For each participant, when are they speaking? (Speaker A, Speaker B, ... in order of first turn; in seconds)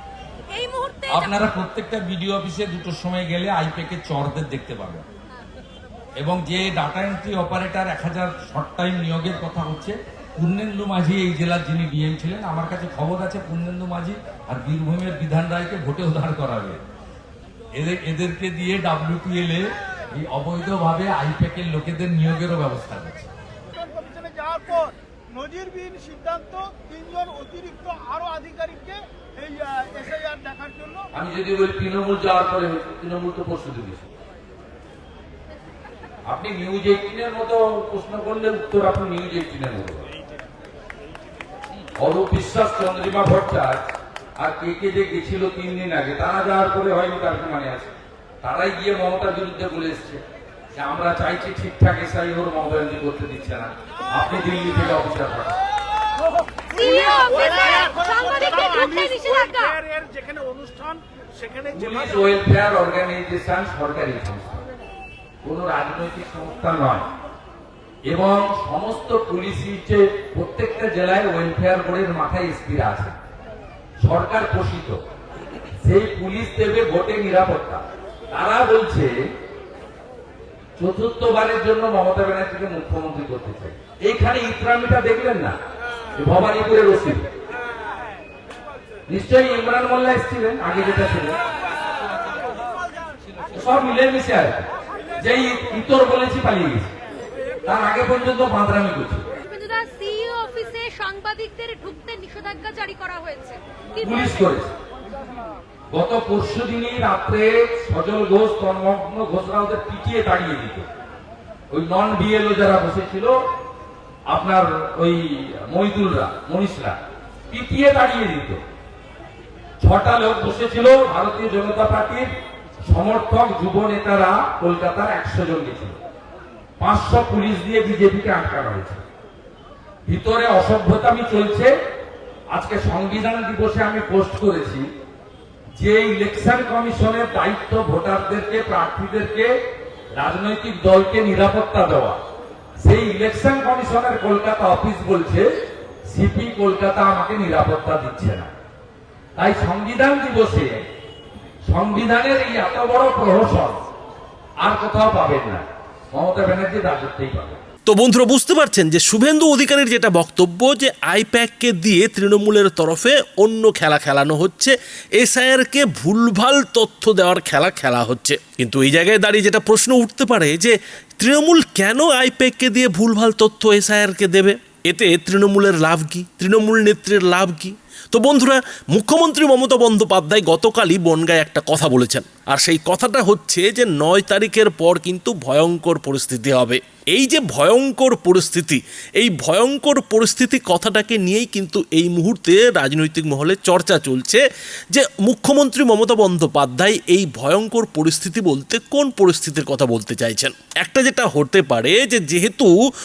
Speaker A: 0.5-1.1, 56.8-59.8, 99.5-103.6
Speaker B: 1.1-5.0, 6.2-16.8, 17.8-23.3, 31.1-34.1, 36.3-40.1, 42.0-43.8, 44.4-50.2, 50.7-55.6, 61.7-64.6, 65.4-67.1, 68.1-73.2, 74.0-75.0, 75.8-79.1, 80.8-85.5, 86.2-87.3, 89.1-91.4, 93.5-96.9, 97.6-99.3, 104.0-104.8, 105.9-110.9, 111.7-113.3, 114.3-117.0, 117.5-118.6, 119.8-122.3, 122.8-126.0, 126.8-129.0, 130.1-131.7, 132.5-134.8, 135.8-139.5, 140.2-142.2, 142.8-145.6, 146.1-148.5, 149.3-150.8, 151.7-153.8, 154.6-157.6
Speaker C: 23.7-31.0, 59.9-61.0
Speaker D: 157.9-202.7